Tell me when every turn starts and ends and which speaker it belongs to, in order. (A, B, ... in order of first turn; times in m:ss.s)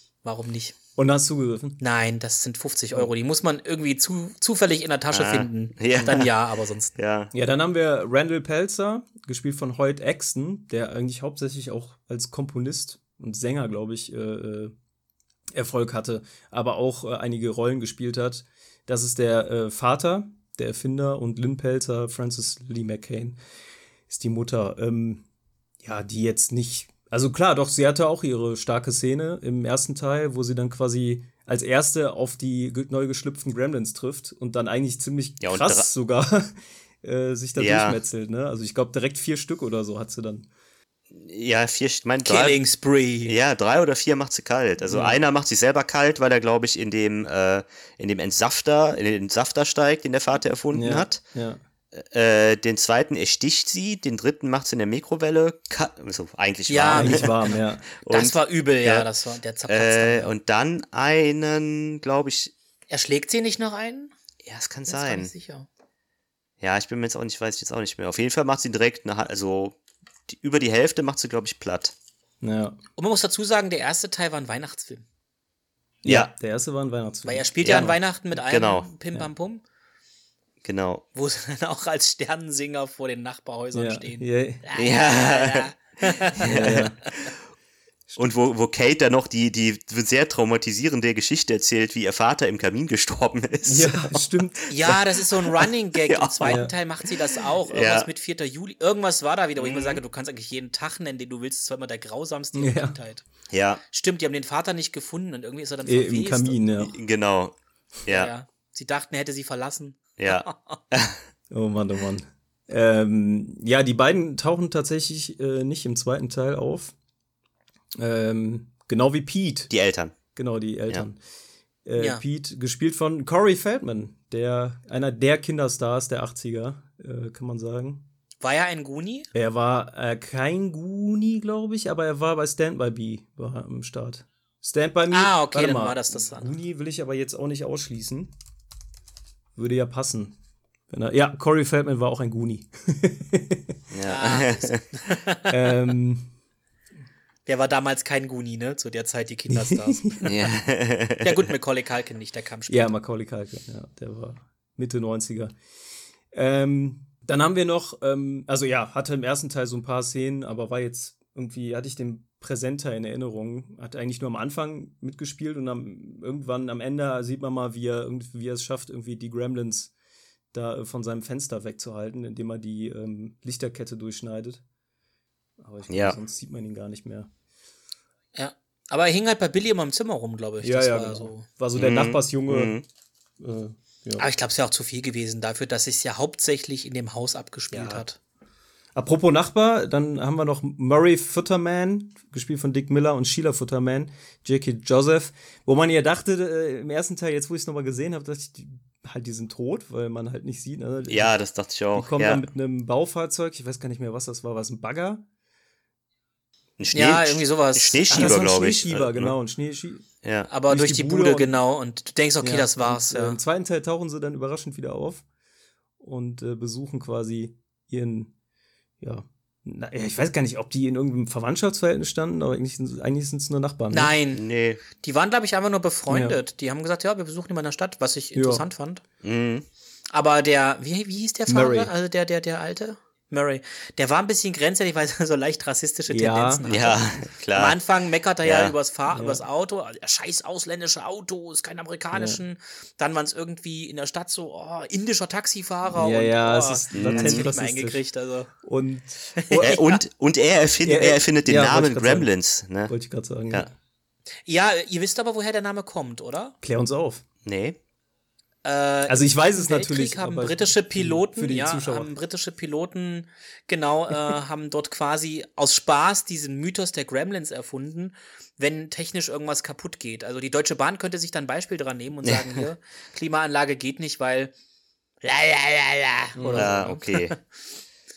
0:00.2-0:00.7 A
0:01.0-0:01.8 B
0:01.8-0:06.9 A
0:05.1-0:06.3 C
0:07.0-0:07.3 C
0:07.3-0:14.7 B
0:15.5-0:23.4 B
0:24.1-0:25.2 B
0:25.8-0:40.5 B
0:35.4-0:35.9 C
0:37.6-0:38.0 C
0:41.1-0:42.6 C
0:42.2-0:43.3 A
0:43.2-0:51.2 C
0:44.9-0:45.2 B
0:50.7-0:51.6 B
0:51.9-0:59.1 C
0:56.7-1:00.3 A
0:56.9-0:57.8 B
0:59.7-1:02.5 C
1:02.9-1:04.1 A
1:04.4-1:05.3 C
1:04.9-1:05.7 A
1:06.6-1:09.8 C
1:10.3-1:11.9 C
1:12.4-1:12.8 B
1:13.0-1:15.0 A
1:16.0-1:18.0 B
1:16.0-1:16.3 C
1:17.2-1:19.6 A
1:17.6-1:18.9 C
1:20.6-1:21.0 C
1:21.1-1:27.3 A
1:23.7-1:24.6 B
1:24.8-1:25.7 C
1:26.4-1:27.3 C
1:26.4-1:27.0 B
1:28.2-1:37.1 C
1:33.6-1:34.7 B
1:34.7-1:43.3 A
1:36.4-1:36.7 B
1:37.7-1:38.1 C
1:39.6-1:40.0 C
1:42.5-1:43.0 B
1:43.5-1:43.8 C
1:43.9-1:46.7 A
1:45.8-1:46.9 B
1:46.8-1:47.5 C
1:48.0-1:48.3 C
1:48.1-1:50.8 A
1:50.2-1:51.2 C
1:51.5-1:56.9 B
1:58.0-1:59.7 B
1:59.7-2:00.1 C
2:00.3-2:01.2 B
2:01.8-2:08.0 B
2:02.0-2:02.2 A
2:08.4-2:09.3 A
2:09.3-2:18.3 B
2:15.1-2:16.5 A
2:19.6-2:20.4 B
2:20.9-2:23.8 B
2:23.9-2:24.8 C
2:24.0-2:25.5 A
2:25.5-2:26.3 B
2:27.4-2:30.2 A
2:29.5-2:30.3 B
2:30.2-2:31.3 C
2:31.2-2:33.0 A
2:32.7-2:35.5 B
2:36.3-2:49.9 B
2:50.5-2:54.6 B
2:55.6-2:57.3 B
2:55.9-2:56.2 C
2:58.3-3:01.4 A
3:00.6-3:02.7 B
3:01.8-3:02.8 C
3:03.4-3:04.2 B
3:04.2-3:08.2 A
3:07.7-3:08.0 B
3:08.9-3:21.3 B
3:21.1-3:22.5 C
3:21.9-3:25.2 B
3:26.8-3:29.3 C
3:26.9-3:28.4 A
3:28.1-3:30.1 B
3:30.2-3:30.5 C
3:30.5-3:33.4 A
3:30.7-3:31.5 B
3:32.4-3:35.2 B
3:36.0-3:38.3 B
3:39.0-3:44.1 B
3:43.9-3:49.0 A
3:44.3-3:44.8 C
3:46.1-3:46.4 B
3:48.3-3:48.6 B
3:49.2-3:49.6 C
3:50.1-3:57.0 A
3:51.5-3:51.9 B
3:56.1-3:56.6 B
3:56.7-3:57.8 C
3:57.5-4:08.5 A
3:58.4-3:58.7 C
3:59.1-3:59.4 B
4:02.1-4:02.4 B
4:05.9-4:08.0 B
4:06.9-4:07.5 C
4:08.6-4:09.8 B
4:09.3-4:10.0 A
4:09.6-4:12.9 C
4:10.8-4:12.3 B
4:12.9-4:13.7 B
4:14.5-4:16.6 A
4:16.6-4:17.2 B
4:17.4-4:17.8 C
4:18.6-4:34.5 A
4:19.0-4:22.1 B
4:32.2-4:32.6 C
4:35.2-4:37.3 A
4:36.4-4:36.8 B
4:36.5-4:37.4 C